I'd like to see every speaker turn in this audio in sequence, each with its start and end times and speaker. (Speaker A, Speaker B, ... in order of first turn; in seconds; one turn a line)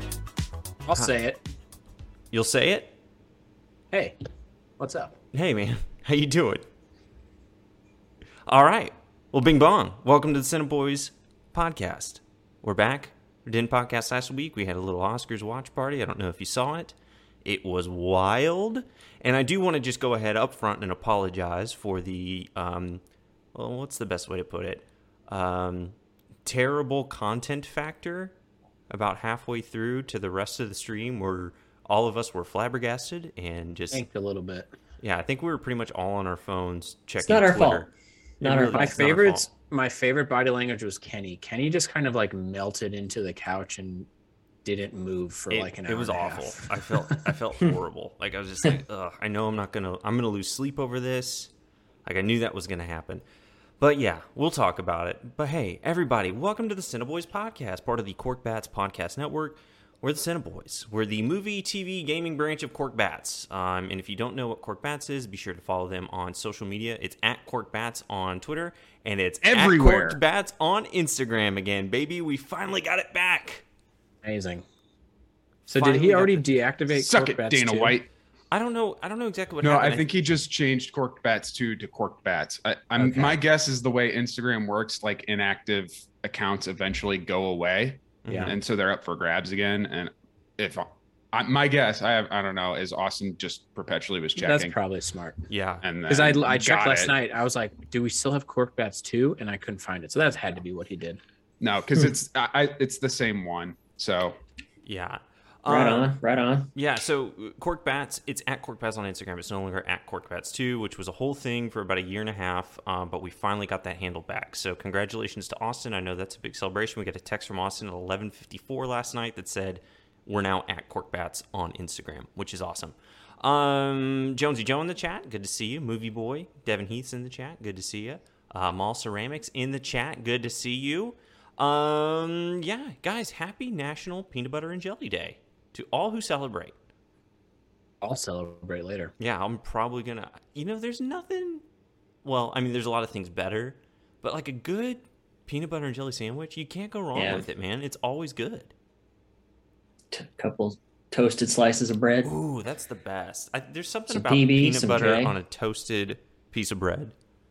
Speaker A: 0.9-1.4
Speaker B: 2.3-3.0
Speaker A: 3.9-4.2
Speaker A: 4.8-5.2
Speaker B: 5.3-6.7
Speaker B: 8.5-16.9
Speaker B: 17.4-23.0
Speaker B: 23.5-28.3
Speaker B: 28.9-34.0
Speaker A: 33.9-34.7
Speaker B: 35.0-37.9
Speaker C: 37.2-37.9
Speaker C: 38.4-39.1
Speaker B: 38.4-39.5
Speaker A: 38.7-44.1
Speaker A: 44.6-47.2
Speaker B: 45.5-51.5
Speaker B: 52.1-53.2
Speaker B: 53.8-73.7
Speaker D: 69.4-70.2
Speaker A: 74.2-74.7
Speaker A: 75.7-78.0
Speaker B: 75.7-76.5
Speaker D: 76.9-78.1
Speaker B: 78.5-80.1
Speaker D: 79.6-94.8
Speaker A: 83.0-83.4
Speaker B: 88.2-88.6
Speaker A: 88.3-88.6
Speaker A: 94.3-95.4
Speaker B: 95.5-95.9
Speaker D: 95.8-97.2
Speaker A: 96.1-101.2
Speaker D: 101.6-104.4
Speaker B: 104.8-106.1
Speaker C: 105.7-106.7
Speaker B: 106.8-136.8
Speaker A: 138.0-139.1
Speaker B: 139.2-141.6
Speaker B: 142.2-148.7
Speaker C: 147.2-147.4
Speaker C: 150.1-152.3
Speaker B: 152.2-157.1
Speaker C: 154.1-155.3